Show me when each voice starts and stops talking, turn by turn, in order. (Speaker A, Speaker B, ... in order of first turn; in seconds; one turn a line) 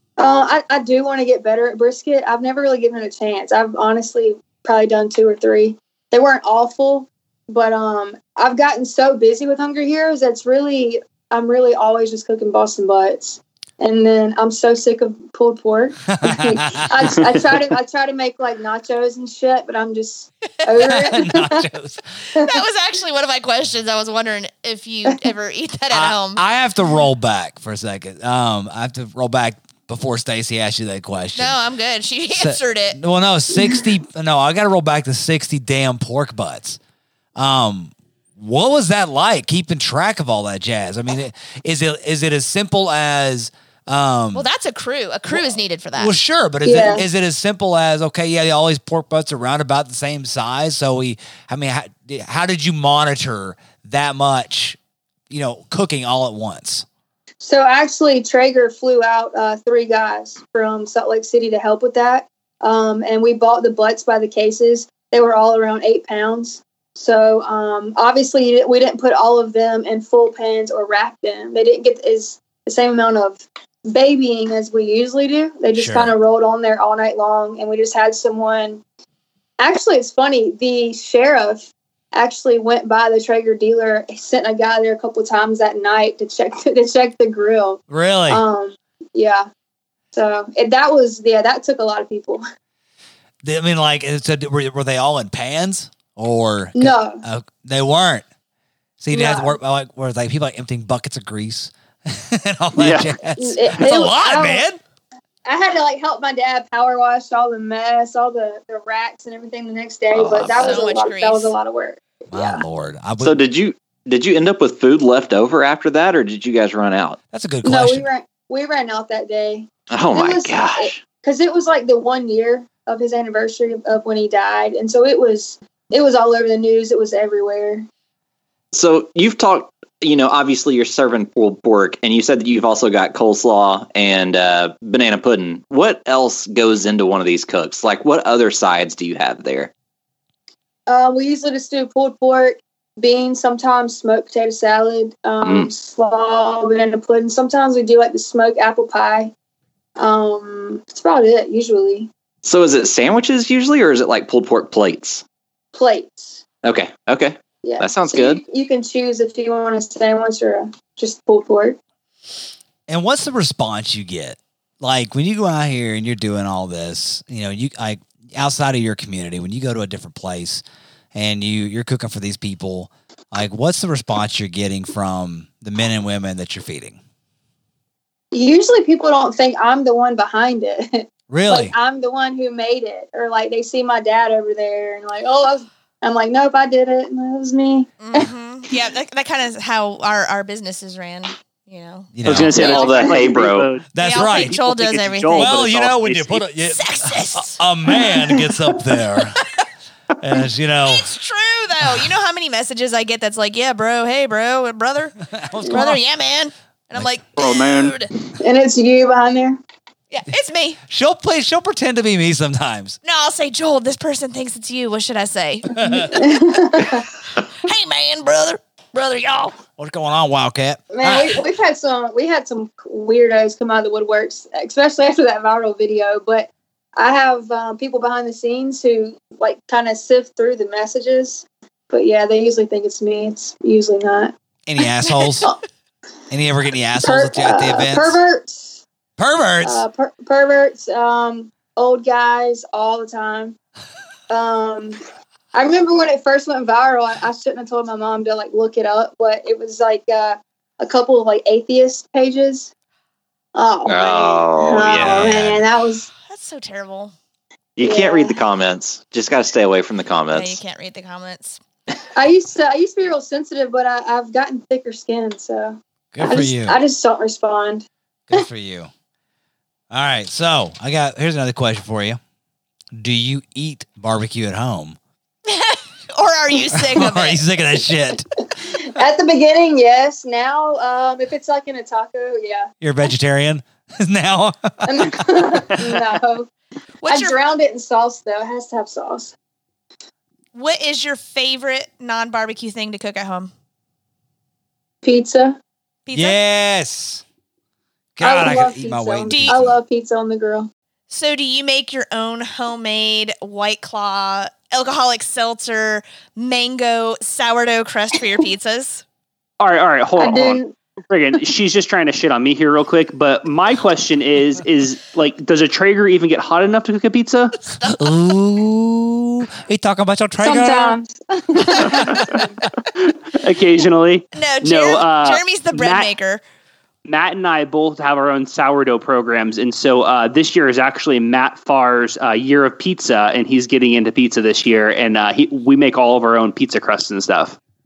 Speaker A: 0.2-21.6
Speaker B: 16.1-17.2
Speaker B: 20.8-22.0
Speaker C: 22.3-26.4
Speaker B: 25.9-31.6
Speaker C: 31.4-33.0
Speaker B: 32.3-36.8
Speaker B: 37.4-44.5
Speaker C: 44.3-46.2
Speaker B: 46.0-54.8
Speaker A: 46.6-47.0
Speaker B: 55.3-56.9
Speaker A: 57.4-78.8
Speaker B: 75.7-76.1
Speaker A: 79.6-89.5
Speaker B: 87.9-88.4
Speaker A: 90.1-92.4
Speaker B: 93.4-98.2
Speaker A: 96.7-97.2
Speaker B: 99.0-104.8
Speaker A: 99.1-99.5
Speaker D: 102.8-103.1
Speaker A: 103.4-104.6
Speaker A: 105.5-112.6
Speaker E: 110.1-110.8
Speaker C: 110.5-111.5
Speaker B: 112.3-113.4
Speaker E: 113.2-117.2
Speaker B: 117.3-118.0
Speaker A: 117.6-127.9
Speaker E: 119.9-121.0
Speaker E: 128.7-139.7
Speaker A: 140.9-149.3
Speaker A: 150.0-152.1
Speaker E: 152.4-155.2
Speaker A: 155.7-156.4
Speaker E: 156.6-158.4
Speaker A: 157.6-161.8
Speaker B: 162.9-177.0
Speaker A: 178.3-188.3
Speaker B: 181.3-181.7
Speaker C: 188.0-193.2
Speaker B: 192.1-192.7
Speaker D: 192.2-196.4
Speaker E: 192.5-193.7
Speaker B: 193.9-194.6
Speaker C: 194.0-195.6
Speaker B: 195.3-199.5
Speaker C: 196.6-197.6
Speaker B: 200.2-201.1
Speaker C: 200.8-208.1
Speaker B: 201.8-202.1
Speaker B: 205.3-206.0
Speaker E: 207.4-207.9
Speaker A: 208.4-209.6
Speaker C: 210.1-210.8
Speaker B: 210.9-213.0
Speaker C: 213.0-216.1
Speaker B: 215.7-216.2
Speaker A: 215.8-217.1
Speaker C: 217.4-219.6
Speaker B: 219.8-221.4
Speaker A: 220.9-234.3
Speaker B: 234.7-235.5
Speaker B: 236.3-238.2
Speaker A: 237.0-238.8
Speaker B: 239.2-239.8
Speaker A: 239.6-243.6
Speaker A: 244.3-245.0
Speaker A: 245.5-252.7
Speaker A: 253.5-256.1
Speaker E: 253.8-255.6
Speaker C: 256.2-257.1
Speaker E: 257.8-260.6
Speaker A: 257.8-258.4
Speaker C: 260.3-261.6
Speaker A: 262.1-268.4
Speaker B: 266.1-266.8
Speaker B: 268.3-268.9
Speaker B: 269.9-272.2
Speaker B: 272.9-275.0
Speaker C: 275.4-277.4
Speaker B: 276.7-278.3
Speaker A: 278.7-282.7
Speaker B: 282.8-285.2
Speaker A: 284.8-286.5
Speaker C: 287.0-287.4
Speaker A: 287.1-289.3
Speaker C: 290.5-293.5
Speaker A: 295.0-295.6
Speaker C: 296.1-296.4
Speaker B: 296.1-297.2
Speaker B: 298.1-299.8
Speaker A: 298.2-300.7
Speaker C: 299.3-299.6
Speaker C: 301.1-309.0
Speaker D: 309.6-317.6
Speaker A: 310.2-310.7
Speaker C: 317.6-318.1
Speaker B: 317.8-321.0
Speaker A: 320.4-322.5
Speaker B: 321.6-322.4
Speaker D: 323.0-326.1
Speaker C: 324.3-326.4
Speaker D: 327.0-337.6